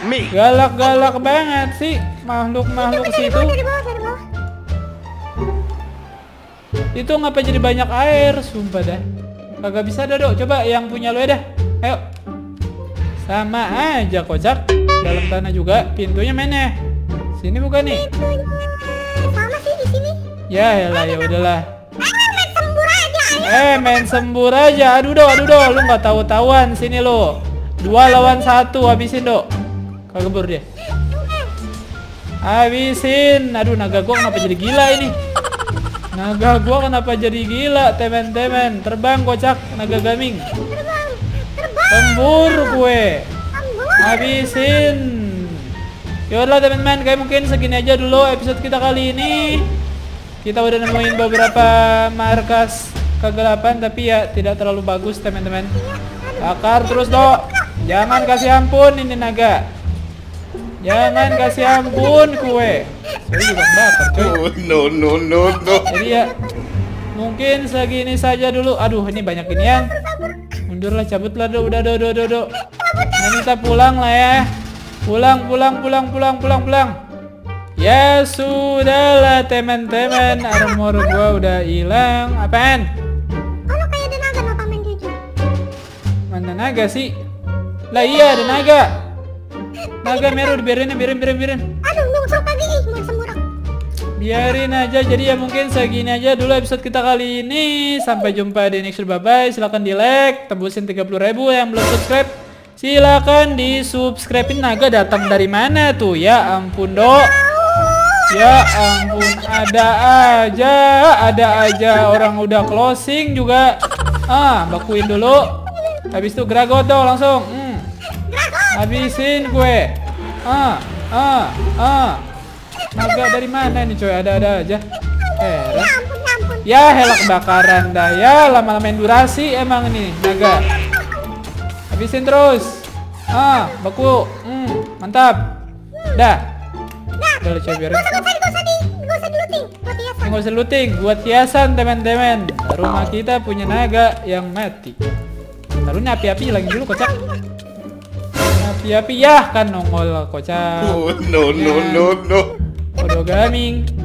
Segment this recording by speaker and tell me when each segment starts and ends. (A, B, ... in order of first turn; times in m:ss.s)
0:00.3-0:03.5 A
0:03.0-0:04.2 B
0:06.9-0:09.0 A
0:09.6-0:12.0 A
0:13.2-0:16.7 A
0:17.4-0:18.1 A
0:17.9-0:20.2 B
0:20.5-0:21.6 A
0:22.0-0:23.9 B
0:23.4-0:29.4 A
0:30.1-0:30.6 A
0:31.1-0:31.5 B
0:32.4-0:35.2 A
0:36.1-0:40.5 A
0:40.6-0:42.8 B
0:41.9-0:43.3 A
0:43.5-0:45.0 B
0:44.0-0:45.7 A
0:46.3-0:49.6 A
0:50.4-0:55.7 A
0:56.0-0:57.4 B
0:56.4-0:59.6 A
1:00.8-1:04.4 A
1:01.3-1:02.4 B
1:04.1-1:05.9 C
1:05.9-1:06.2 B
1:05.9-1:06.3 A
1:07.1-1:09.9 A
1:10.7-1:12.5 A
1:13.2-1:14.5 A
1:15.1-1:16.9 A
1:17.8-1:22.9 A
1:23.7-1:25.2 B
1:26.3-1:27.1 A
1:27.9-1:28.9 A
1:28.0-1:28.7 B
1:30.0-1:31.7 A
1:30.1-1:30.5 B
1:31.8-1:33.4 B
1:34.2-1:47.3 A
1:48.3-1:53.8 A
1:54.3-1:55.6 A
1:56.1-1:57.9 A
1:58.3-1:59.1 B
1:58.7-2:02.2 A
2:03.0-2:04.8 A
2:05.4-2:06.0 A
2:05.4-2:07.2 B
2:06.6-2:10.6 A
2:11.9-2:15.5 A
2:16.1-2:16.4 A
2:17.2-2:20.4 B
2:17.4-2:18.2 A
2:20.2-2:25.0 A
2:25.8-2:27.2 A
2:28.6-2:32.1 A
2:30.8-2:32.5 C
2:33.0-2:33.9 A